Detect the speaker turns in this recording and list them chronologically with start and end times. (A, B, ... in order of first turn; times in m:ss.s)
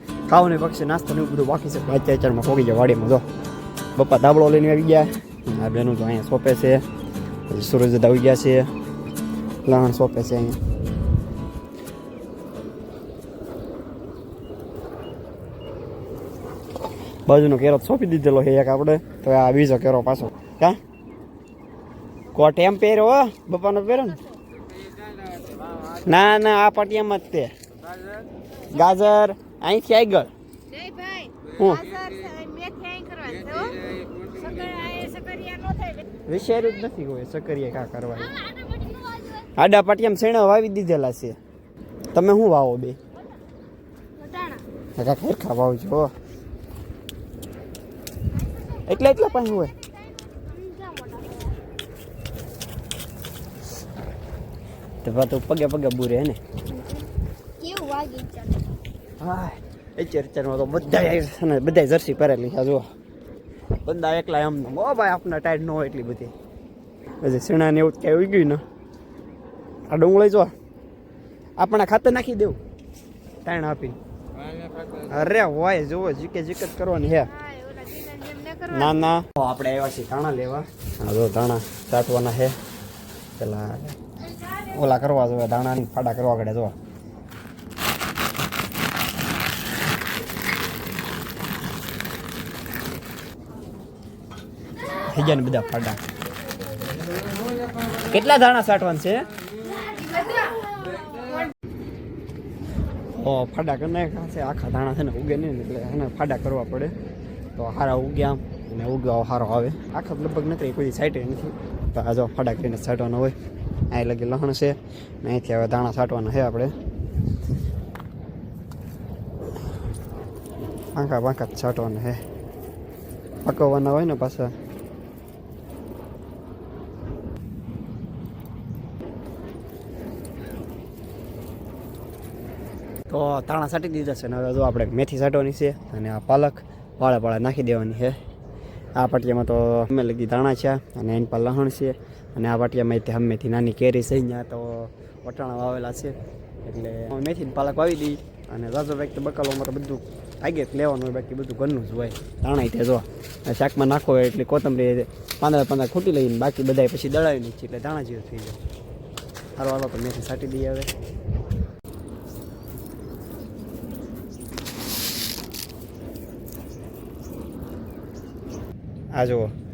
0:00.3-0:03.2 A
0:04.0-0:06.8 A
0:07.5-0:08.7 A
0:09.7-0:10.6 A
0:17.3-0:20.8 A
0:22.3-0:24.2 A
0:26.0-0:27.5 A
0:28.7-0:30.3 A
0:30.8-0:31.3 B
0:31.6-0:31.9 A
0:31.8-0:36.0 B
0:36.3-0:38.4 A
0:38.6-0:39.4 B
0:39.6-0:41.4 A
0:42.1-0:43.0 A
0:44.2-0:44.6 B
0:45.0-0:46.1 A
0:48.7-0:51.6 B
0:48.8-0:49.8 A
0:55.0-0:56.4 A
0:56.7-0:57.1 B
0:57.6-0:58.7 B
0:59.2-1:02.8 A
1:03.8-1:06.3 A
1:07.2-1:08.6 A
1:09.9-1:10.5 A
1:11.6-1:12.6 A
1:13.4-1:14.0 A
1:15.1-1:17.4 A
1:17.4-1:18.7 B
1:18.7-1:22.6 A
1:23.4-1:24.0 A
1:24.6-1:26.7 A
1:35.1-1:36.0 A
1:38.0-1:39.2 A
1:39.9-1:41.3 B
1:43.1-1:46.9 A
1:47.6-1:53.4 A
1:53.9-1:56.8 A
2:01.0-2:02.2 A
2:03.4-2:04.5 A
2:13.1-2:18.2 A
2:19.0-2:38.6 A
2:39.6-2:40.9 A
2:49.2-2:49.5 A